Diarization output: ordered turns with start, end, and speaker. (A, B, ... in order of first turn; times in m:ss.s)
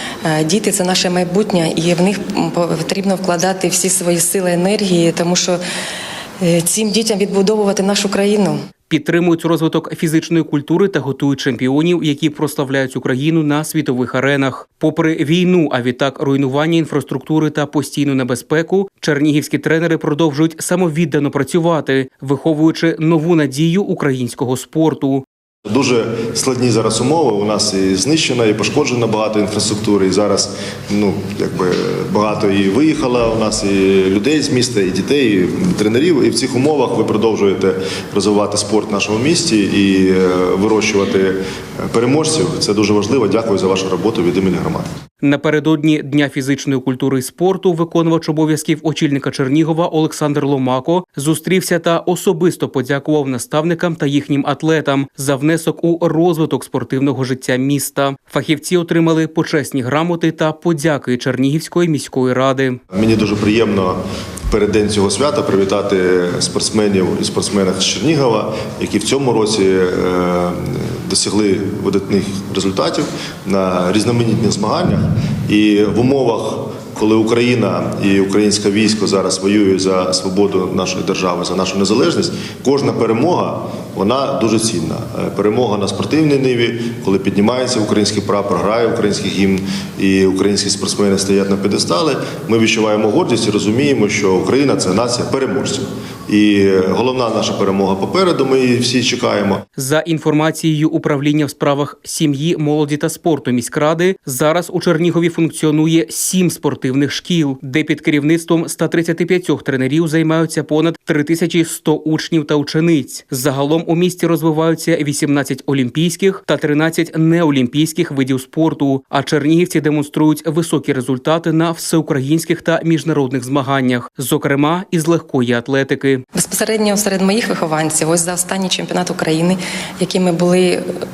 0:00.2-0:05.6 A
0:06.4-0:08.6 A
0:08.9-0:25.2 B
0:25.6-0:44.9 C
0:45.2-1:02.8 B
1:02.9-1:04.0 C
1:04.5-1:39.6 C
1:39.8-2:06.2 B
2:06.3-2:10.8 A